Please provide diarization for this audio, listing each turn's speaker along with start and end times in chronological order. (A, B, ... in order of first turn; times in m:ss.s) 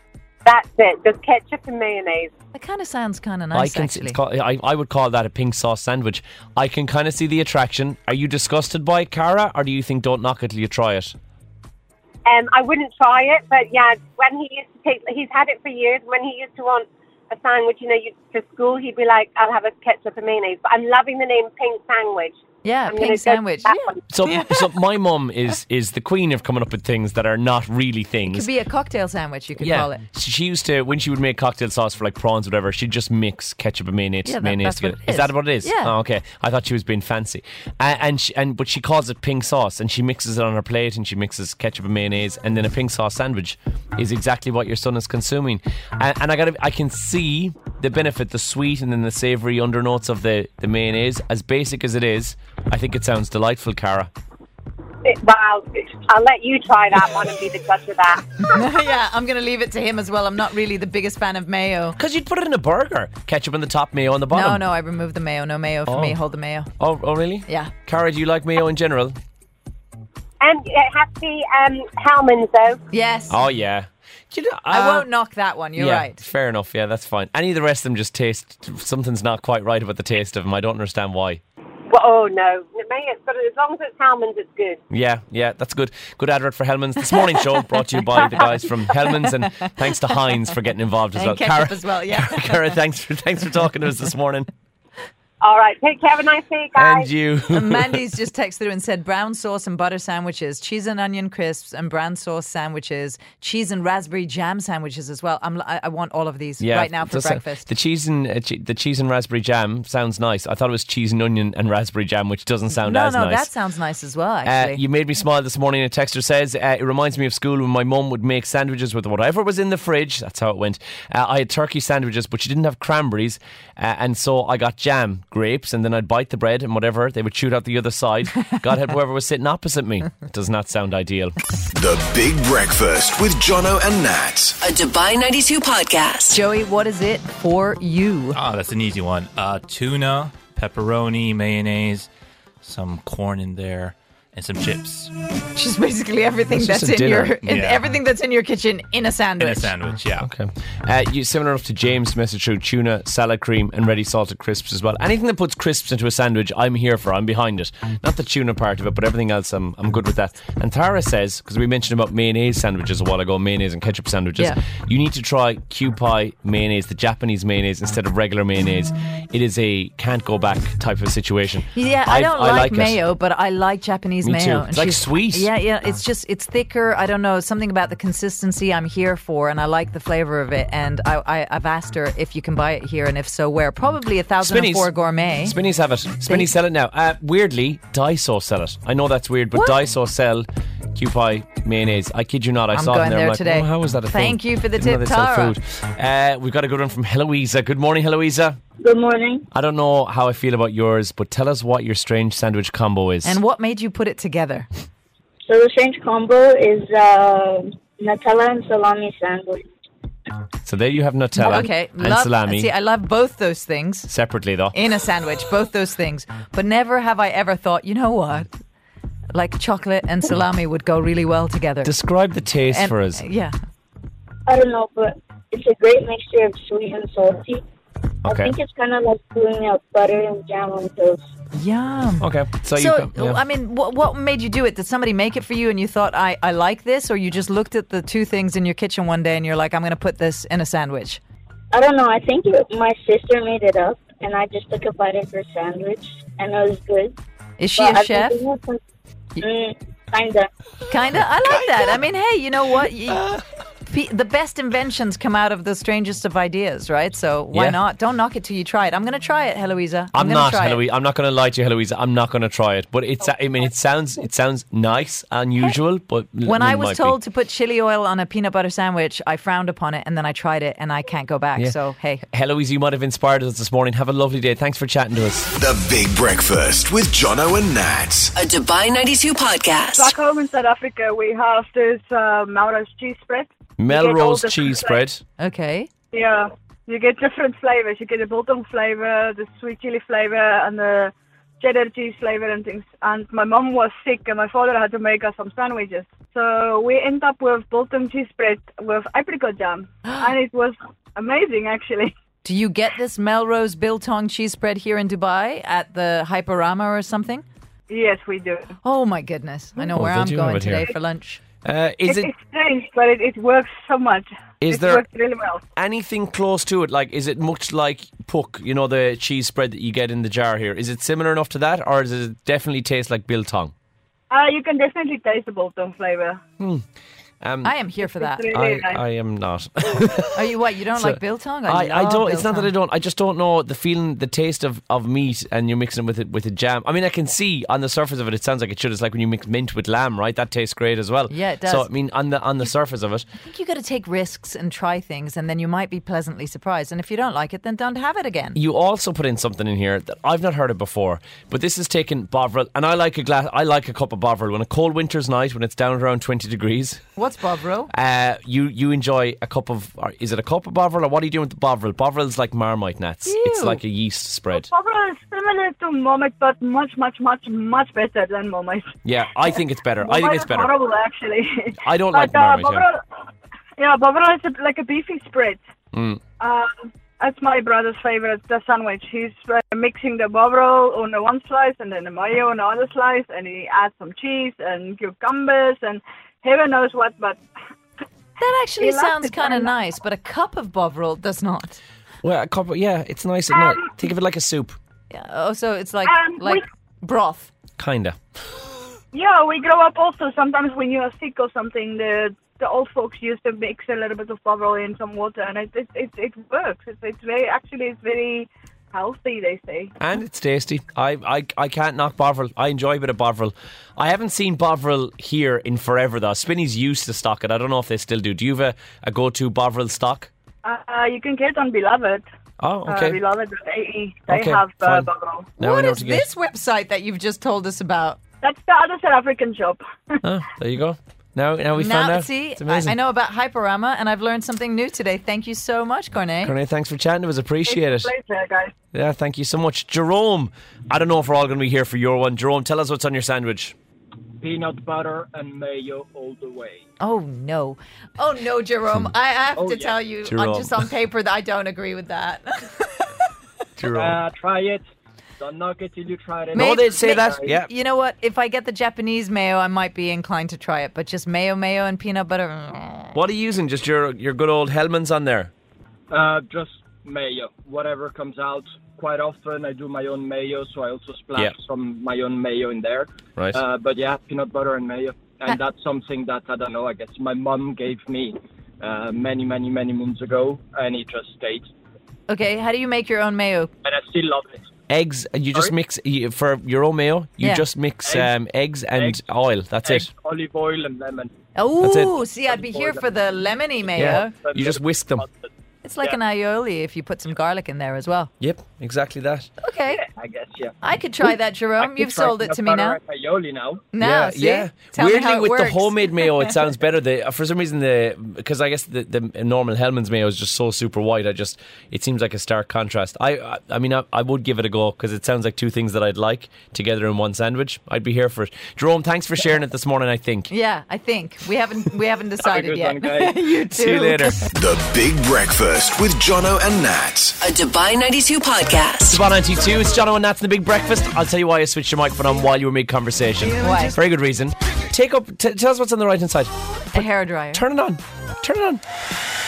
0:00.4-0:02.3 A
0:02.5-0:04.2 B
0:03.5-0:11.1 C
0:12.2-0:24.0 A
0:22.6-0:24.6 B
0:24.1-0:28.5 C
0:28.3-0:30.0 B
0:29.6-0:54.1 C
0:34.2-0:35.9 B
0:55.0-0:58.3 A
0:58.4-1:02.0 B
1:02.0-1:04.6 C
1:04.3-1:06.7 B
1:05.9-1:06.2 C
1:06.8-1:09.2 C
1:07.5-1:07.7 B
1:10.4-1:12.8 A
1:12.9-1:13.4 B
1:13.3-1:15.1 C
1:14.7-1:16.2 B
1:15.8-1:21.4 C
1:21.9-1:24.8 A
1:24.9-1:34.5 C
1:27.7-1:28.5 B
1:31.1-1:32.7 B
1:35.4-1:37.1 A
1:36.7-1:38.0 C
1:37.5-1:47.7 B
1:46.6-1:53.5 C
1:52.8-1:54.8 B
1:54.4-2:11.4 C
2:11.7-2:14.6 D
2:14.6-2:16.4 E
2:16.3-2:18.4 B
2:18.3-2:22.1 F
2:22.6-2:25.1 F
2:25.5-2:29.8 B
2:26.5-2:27.4 C
2:27.4-2:27.9 F
2:29.4-2:30.3 F
2:30.2-2:53.0 C
2:51.7-3:05.6 B
2:54.2-2:55.5 C
3:04.4-3:04.9 C
3:05.4-3:18.6 C
3:12.7-3:15.5 B
3:18.8-3:19.5 G
3:19.5-3:23.4 C
3:23.2-3:24.7 B
3:25.4-3:29.7 G
3:30.6-3:32.7 C
3:31.4-3:34.1 B
3:34.1-3:34.8 C
3:34.7-3:38.5 B
3:39.3-3:41.9 B
3:41.8-3:43.2 C
3:42.7-3:43.6 B
3:44.5-3:47.6 G
3:48.2-3:48.5 C
3:48.2-3:51.2 G
3:51.5-4:01.2 B
3:52.2-3:53.4 C
4:01.7-4:07.2 G
4:07.6-4:08.4 B
4:07.8-4:08.8 G
4:09.4-4:10.5 G
4:10.9-4:13.2 B
4:13.9-4:20.8 B
4:17.5-4:17.8 C
4:20.1-4:27.2 C
4:26.4-4:32.2 B
4:31.6-4:35.5 C
4:35.5-4:38.3 D
4:38.4-4:40.1 E
4:40.0-4:45.0 H
4:43.8-4:45.2 C
4:45.4-4:45.9 B
4:46.1-5:02.1 H
5:02.4-5:07.4 B
5:07.9-5:08.7 H
5:08.8-5:11.4 B
5:09.9-5:10.9 C
5:11.6-5:12.3 C
5:12.0-5:15.6 H
5:14.6-5:15.0 C
5:15.8-5:23.7 C
5:24.3-5:26.4 H
5:26.6-5:26.8 C
5:27.4-5:27.7 C
5:27.6-5:28.5 B
5:28.2-5:29.0 H
5:28.5-5:43.2 C
5:30.3-5:32.7 B
5:41.3-5:41.9 B
5:43.3-5:48.6 B
5:48.5-5:57.0 C
5:57.2-5:57.9 B
5:57.9-6:04.7 C
6:03.2-6:03.8 B
6:04.5-6:08.9 H
6:09.0-6:10.7 C
6:10.0-6:13.0 H
6:11.8-6:12.9 C
6:13.8-6:15.6 H
6:15.9-6:16.2 C
6:16.4-6:27.4 H
6:28.4-6:31.8 B
6:28.8-6:29.7 H
6:32.2-6:34.8 C
6:33.5-6:33.9 H
6:35.1-6:37.5 B
6:36.0-6:36.6 H
6:37.8-6:38.2 C
6:39.1-6:49.9 H
6:50.0-7:00.3 C
7:00.6-7:02.2 H
7:02.6-7:03.2 C
7:02.8-7:05.5 H
7:04.3-7:06.3 C
7:05.6-7:08.2 B
7:08.4-7:10.2 H
7:10.2-7:13.0 C
7:11.7-7:16.5 B
7:16.4-7:18.1 C
7:17.8-7:18.7 H
7:18.9-7:23.7 C
7:24.4-7:26.8 I
7:27.0-7:33.1 B
7:29.6-7:30.0 I
7:30.2-7:30.8 C
7:33.8-7:34.2 C
7:33.9-7:34.8 I
7:35.4-7:37.5 I
7:36.5-7:37.7 C
7:36.5-7:43.1 B
7:43.1-7:45.5 C
7:46.1-8:01.7 I
7:53.4-7:53.6 C
8:02.3-8:03.7 B
8:03.8-8:04.6 I
8:04.9-8:10.1 C
8:08.0-8:08.3 I
8:09.8-8:11.3 I
8:11.5-8:14.4 B
8:11.8-8:12.2 C
8:12.5-8:13.0 I
8:13.9-8:15.2 C
8:14.0-8:15.5 I
8:15.8-8:18.3 B
8:18.4-8:19.5 C
8:19.6-8:20.0 B
8:19.9-8:20.8 I
8:20.8-8:23.0 B
8:21.8-8:23.9 I
8:23.9-8:26.5 B
8:24.0-8:40.5 C
8:40.5-8:44.4 B
8:42.4-8:43.4 I
8:43.7-8:44.4 C
8:44.5-8:47.4 D
8:47.4-8:49.2 E
8:49.1-8:58.8 C
8:53.4-8:54.0 B
8:56.9-8:57.6 B